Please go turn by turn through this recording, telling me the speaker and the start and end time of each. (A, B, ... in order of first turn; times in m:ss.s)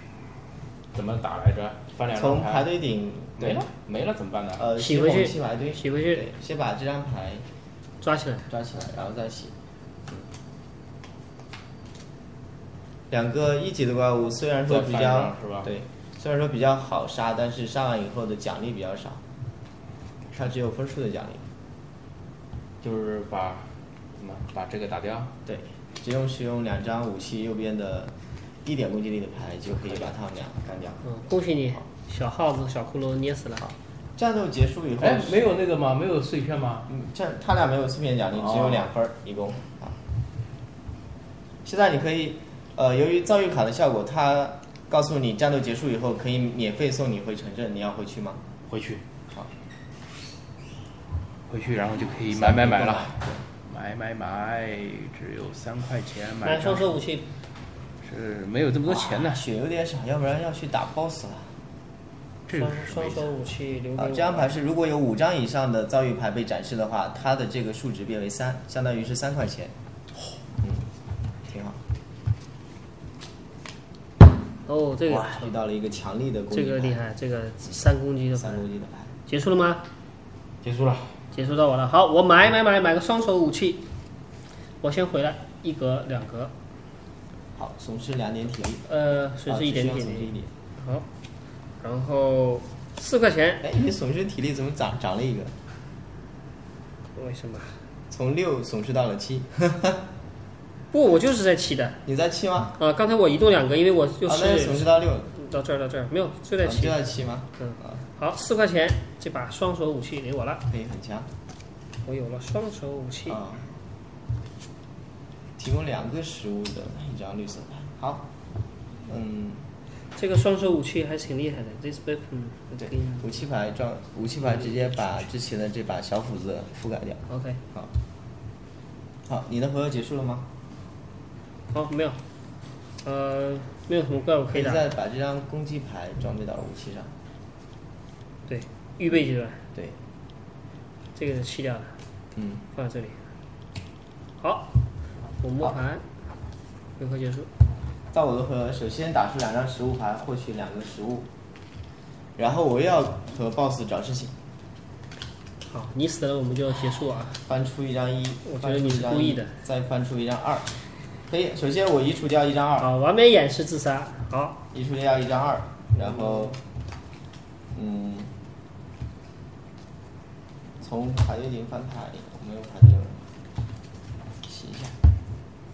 0:00.9-0:02.7 A
0:02.1-0:03.7 B
0:03.4-0:04.7 A
0:04.6-0:07.4 B
0:04.8-0:06.3 C
0:08.0-0:08.5 C
0:08.5-0:09.5 B
0:13.1-0:19.2 B
0:14.7-0:15.7 A
0:20.3-0:21.5 B
0:22.8-0:25.3 A
0:25.4-0:31.0 B
0:31.0-0:33.7 C
0:33.6-0:35.4 B
0:35.0-0:36.9 A
0:36.9-0:40.0 B
0:38.4-0:38.9 A
0:41.6-0:48.4 B
0:48.7-0:49.0 A
0:51.5-0:56.9 A
0:52.3-0:53.4 B
0:56.4-0:57.3 C
0:58.0-0:59.4 A
0:58.9-1:01.6 B
1:02.5-1:03.3 A
1:02.5-1:04.5 C
1:04.0-1:09.7 B
1:10.6-1:10.9 B
1:11.5-1:11.8 B
1:14.7-1:15.5 C
1:15.1-1:17.0 B
1:16.5-1:18.6 C
1:18.4-1:19.1 B
1:19.3-1:19.8 C
1:20.6-1:21.2 A
1:21.3-1:23.8 C
1:24.8-1:26.5 C
1:27.6-1:28.9 B
1:28.9-1:31.1 C
1:29.5-1:30.5 B
1:31.8-1:33.6 C
1:33.6-1:35.5 B
1:37.2-1:37.8 C
1:38.1-1:40.0 B
1:40.9-1:42.0 C
1:42.1-1:42.8 B
1:42.8-1:47.0 C
1:44.3-1:45.3 B
1:46.6-1:47.9 B
1:47.6-1:50.7 C
1:50.7-1:51.3 B
1:52.1-1:53.4 C
1:53.3-1:53.7 B
1:55.6-1:58.3 B
1:59.1-1:59.7 B
2:00.2-2:03.3 C
2:02.8-2:07.2 B
2:07.3-2:07.6 C
2:09.3-2:10.5 B
2:11.7-2:12.2 C
2:13.0-2:14.9 C
2:14.5-2:17.1 B
2:18.5-2:19.6 C
2:21.2-2:22.0 C
2:22.4-2:22.6 B
2:22.7-2:23.2 C
2:24.4-2:24.7 C
2:25.4-2:26.0 C
2:27.0-2:27.5 C
2:28.1-2:31.3 B
2:32.4-2:34.3 B
2:35.7-2:37.4 C
2:37.4-2:42.9 B
2:38.5-2:39.5 C
2:42.8-2:44.6 C
2:44.7-2:46.6 B
2:46.0-2:46.5 C
2:47.7-2:48.3 B
2:50.8-2:53.2 B
2:54.4-2:55.0 B